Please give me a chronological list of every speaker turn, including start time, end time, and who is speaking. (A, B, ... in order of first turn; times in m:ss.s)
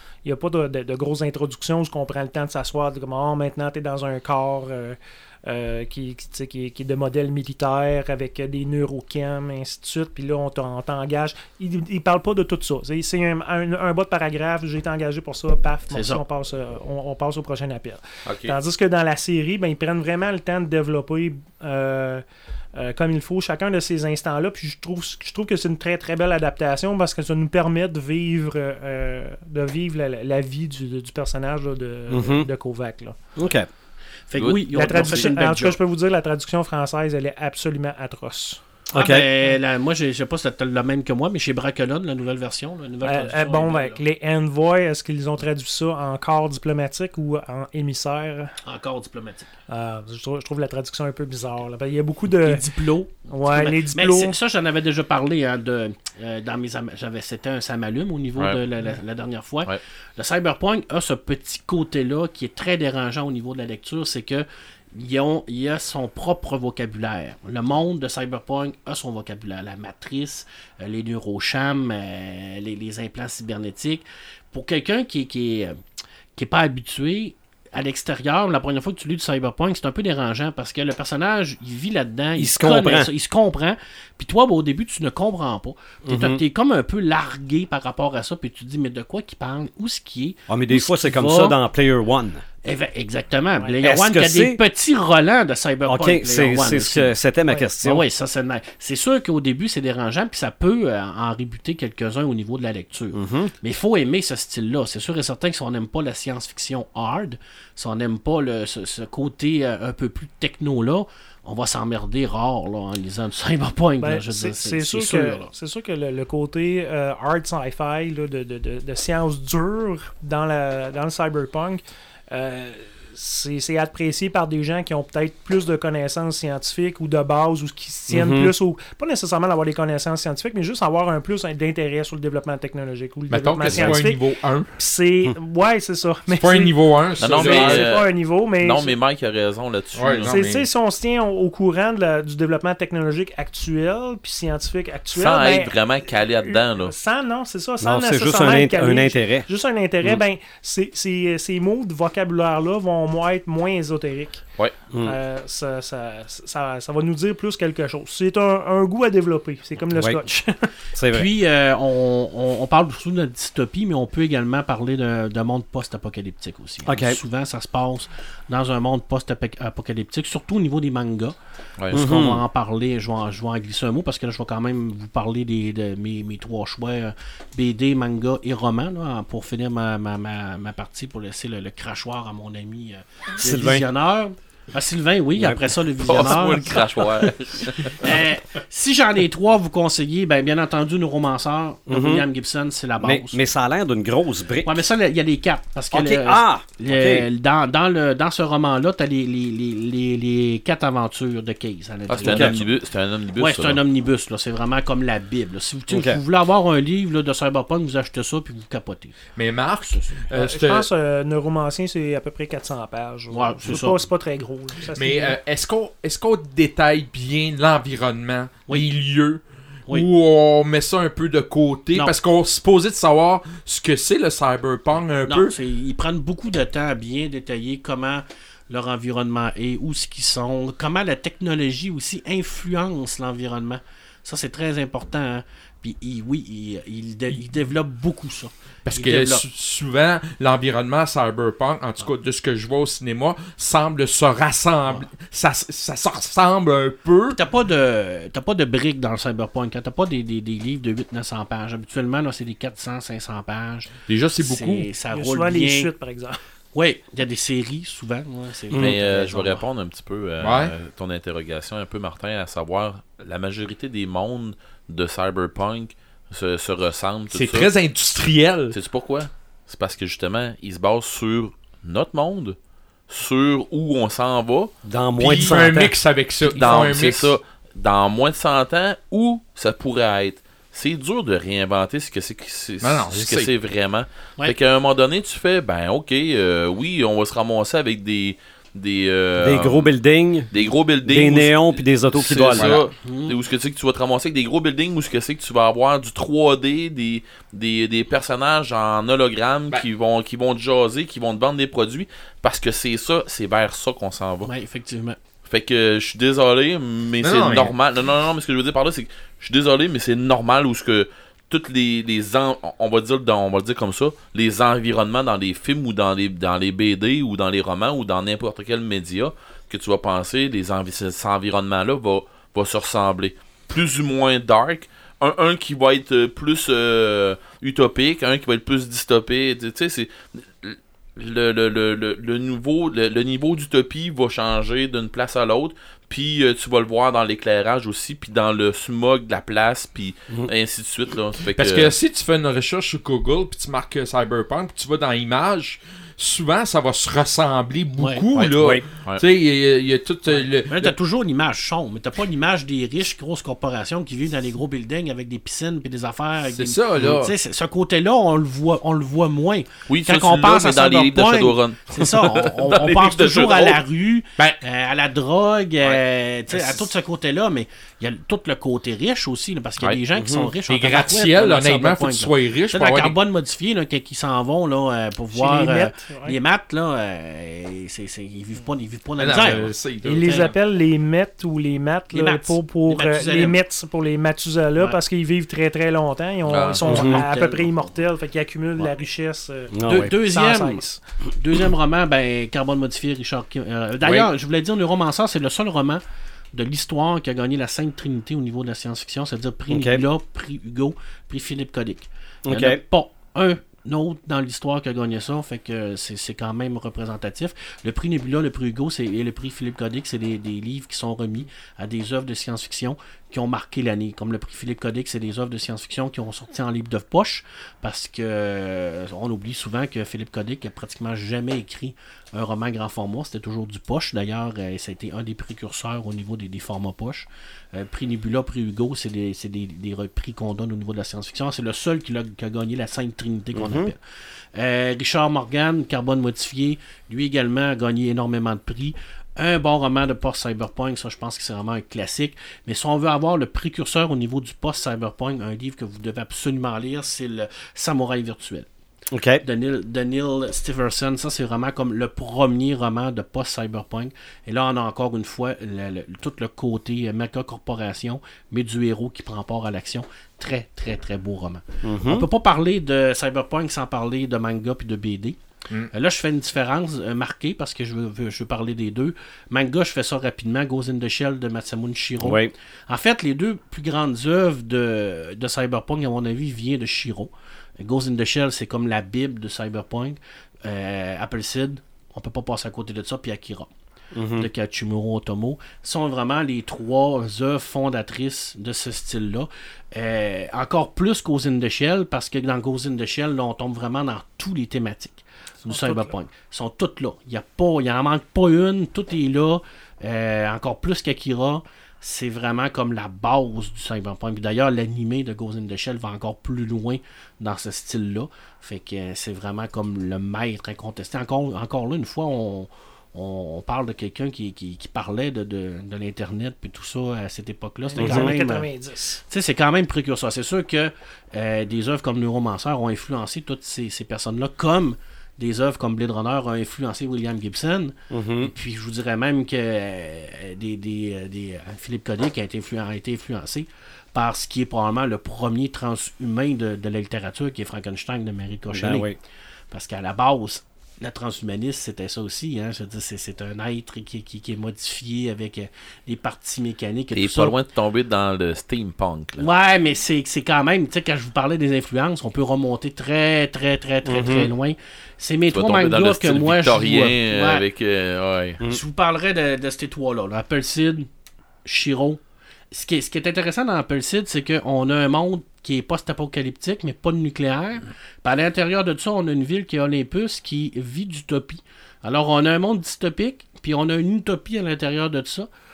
0:00.2-0:22.2 A
0:15.9-0:16.2 B
0:18.3-0:18.6 C
0:22.8-0:33.2 A
0:32.1-0:32.5 D
0:33.4-0:33.7 D
0:34.3-0:35.8 B
0:34.4-0:35.3 C
0:34.7-0:38.6 A
0:38.9-0:39.3 D
0:38.9-0:44.0 B
0:43.0-0:48.6 A
0:48.6-0:49.5 B
0:49.7-0:52.6 A
0:52.3-1:15.8 B
0:53.3-0:54.3 A
1:16.4-1:31.6 B
1:22.4-1:23.1 D
1:26.0-1:26.4 D
1:30.5-1:32.4 D
1:32.6-1:37.1 B
1:33.8-1:34.6 D
1:35.9-1:38.0 D
1:37.8-1:55.5 B
1:43.1-1:43.5 D
1:54.0-2:14.2 A
2:08.1-2:08.5 D
2:13.3-2:14.7 E
2:13.7-2:13.9 D
2:14.8-2:18.9 A
2:16.3-2:17.9 E
2:17.2-2:20.4 C
2:20.0-2:20.7 E
2:20.3-2:25.8 A
2:25.1-2:26.9 C
2:26.4-2:34.4 A
2:27.8-2:29.5 D
2:34.9-2:35.2 D
2:35.0-2:40.7 A
2:40.0-2:40.2 D
2:41.0-2:41.3 D
2:41.1-2:51.4 B
2:46.9-2:47.2 D
2:51.9-3:06.9 B
2:51.9-2:52.4 D
3:03.4-3:03.9 D
3:05.4-3:05.6 D
3:06.0-3:08.0 C
3:08.0-3:13.4 B
3:11.9-3:12.3 D
3:13.0-3:14.8 D
3:14.6-3:22.7 B
3:15.9-3:17.3 D
3:22.1-3:23.8 C
3:22.2-3:22.6 D
3:23.4-3:29.2 B
3:25.9-3:26.2 D
3:29.4-3:30.9 E
3:29.9-3:30.2 B
3:30.3-3:35.4 A
3:33.3-3:34.1 B
3:34.9-3:45.5 E
3:45.3-3:59.4 B
3:58.9-4:07.4 E
4:07.3-4:15.9 B
4:14.1-4:14.9 E
4:15.1-4:16.4 A
4:16.7-4:19.7 B
4:18.7-4:27.7 C
4:20.4-4:20.7 E
4:27.3-4:28.8 E
4:28.7-4:32.6 C
4:33.1-4:34.7 C
4:34.8-4:36.0 D
4:35.2-4:37.4 E
4:36.4-4:49.9 C
4:42.8-4:43.5 E
4:49.4-4:50.5 D
4:50.5-5:04.5 C
4:51.1-4:52.7 D
4:52.6-4:52.8 E
4:53.0-4:53.4 B
5:04.4-5:05.2 B
5:05.5-5:42.0 C
5:07.2-5:07.7 E
5:41.5-5:50.9 E
5:48.0-5:48.2 B
5:48.3-5:49.2 C
5:50.6-6:19.7 B
5:56.5-5:57.3 E
5:59.9-6:03.8 C
6:10.2-6:10.5 D
6:10.7-6:13.2 E
6:15.3-6:16.4 A
6:19.2-6:20.5 E
6:20.0-6:31.0 A
6:20.2-6:20.5 B
6:22.1-6:23.6 B
6:26.5-6:26.9 C
6:26.8-6:28.0 B
6:26.9-6:27.2 D
6:29.7-6:30.1 D
6:29.9-6:30.8 B
6:31.4-6:36.0 B
6:36.5-7:14.0 B
6:39.7-6:40.0 D
6:42.5-6:42.8 D
7:13.6-7:13.9 D
7:14.5-7:28.7 B
7:29.1-7:29.4 D
7:29.4-7:45.4 B
7:41.8-7:42.3 D
7:45.9-8:03.7 B
7:52.2-7:52.5 D
8:04.1-8:04.5 D
8:04.3-8:38.7 B
8:15.7-8:16.1 A
8:37.9-8:39.2 A
8:38.0-8:38.3 D
8:39.3-8:59.1 B
8:48.1-8:48.5 D
8:58.7-8:59.2 D
8:59.7-9:07.6 B
9:07.1-9:09.4 C
9:09.4-9:17.6 B
9:14.0-9:14.5 D
9:15.5-9:18.6 C
9:18.6-9:21.1 B
9:21.6-9:35.5 B